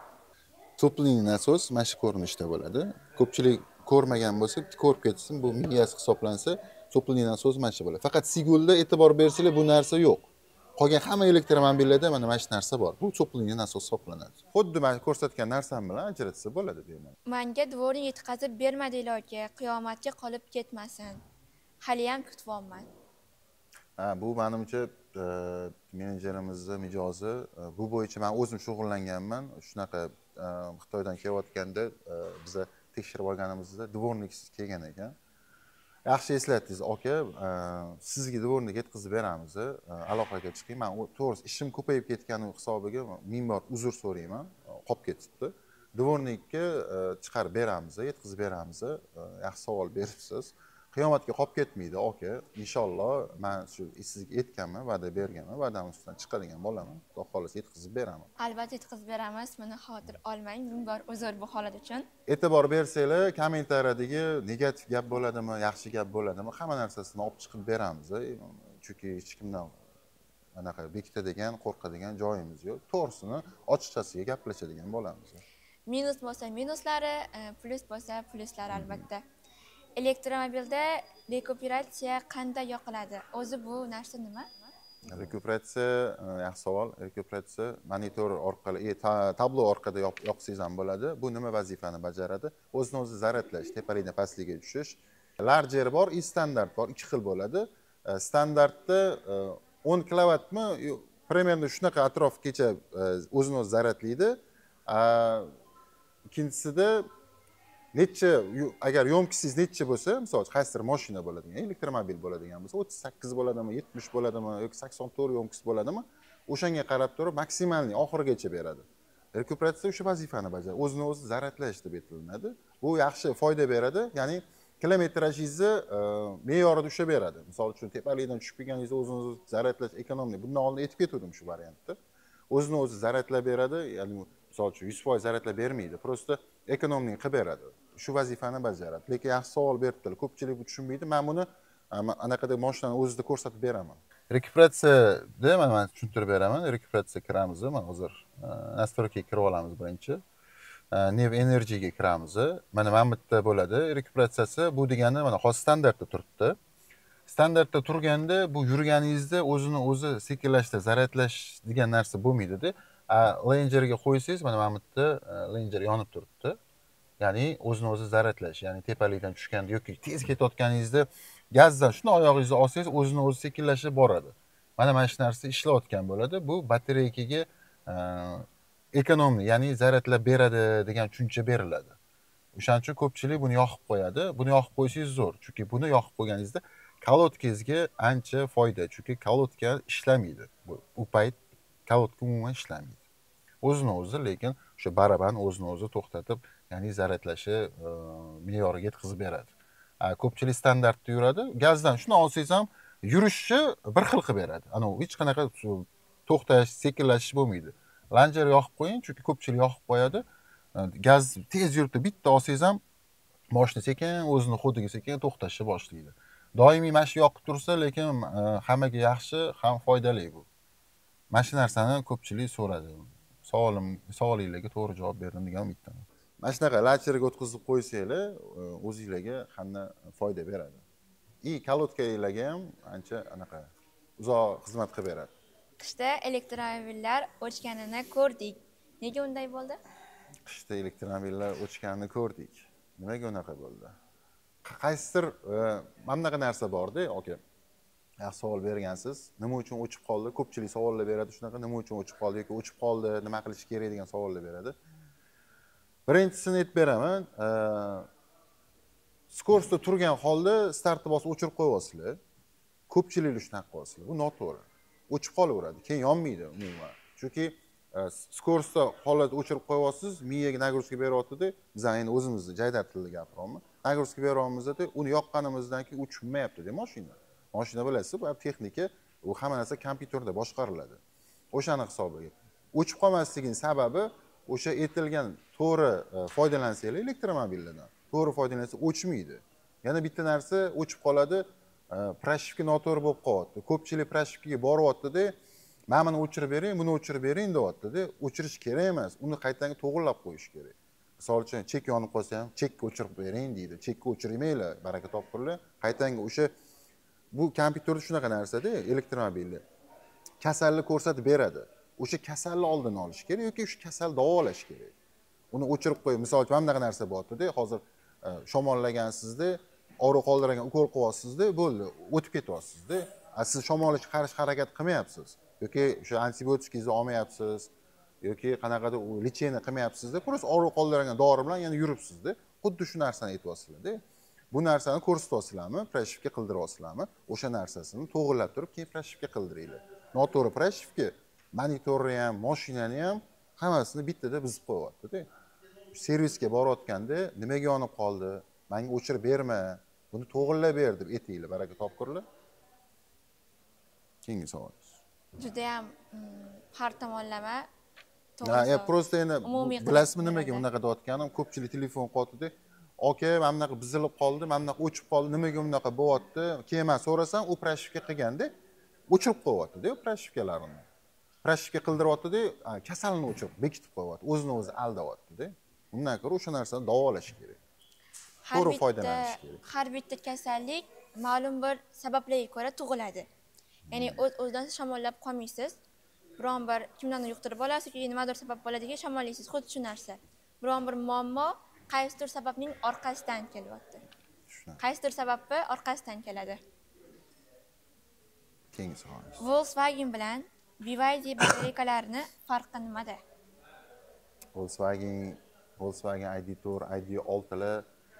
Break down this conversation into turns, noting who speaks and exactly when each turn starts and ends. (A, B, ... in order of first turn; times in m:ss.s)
0:00.8-0:17.2 A
0:17.2-0:21.2 B
0:21.8-0:22.9 B
0:24.0-0:35.1 A
0:36.0-0:58.3 A
0:58.4-1:02.1 B
1:02.3-1:09.8 A
1:10.5-1:15.4 A
1:15.9-1:19.2 B
1:18.7-1:19.0 A
1:20.0-1:24.7 B
1:25.0-1:45.5 A
1:46.3-1:47.1 A
1:47.9-2:12.0 A
2:12.5-2:30.2 A
2:30.9-2:36.6 A
2:37.3-2:46.6 A
2:47.2-3:02.0 A
3:02.5-3:13.0 A
3:13.6-3:30.2 A
3:30.8-3:32.8 A
3:33.5-3:40.5 A
3:41.3-3:50.8 A
3:51.4-3:55.3 A
3:55.8-3:59.8 B
4:00.4-4:03.9 A
4:04.6-4:07.4 A
4:08.2-4:14.7 A
4:16.1-4:18.1 A
4:19.3-4:22.2 A
4:22.9-4:41.0 A
4:41.5-4:55.3 A
4:55.9-5:06.5 A
5:07.3-5:09.6 A
5:10.4-5:14.9 A
5:15.5-5:27.7 A
5:28.2-5:45.2 A
5:45.9-5:52.2 A
5:54.2-5:55.0 A
5:55.4-5:57.7 B
5:58.4-5:58.9 B
5:58.4-6:08.5 A
5:59.4-6:00.6 B
6:09.1-6:10.8 A
6:11.4-6:17.6 A
6:18.4-6:23.3 B
6:18.5-6:19.6 A
6:23.9-6:24.2 A
6:23.9-6:25.8 B
6:26.4-6:34.0 B
6:34.5-6:34.8 A
6:34.8-6:36.6 B
6:38.7-6:39.4 A
6:39.4-6:43.2 B
6:44.5-6:47.8 A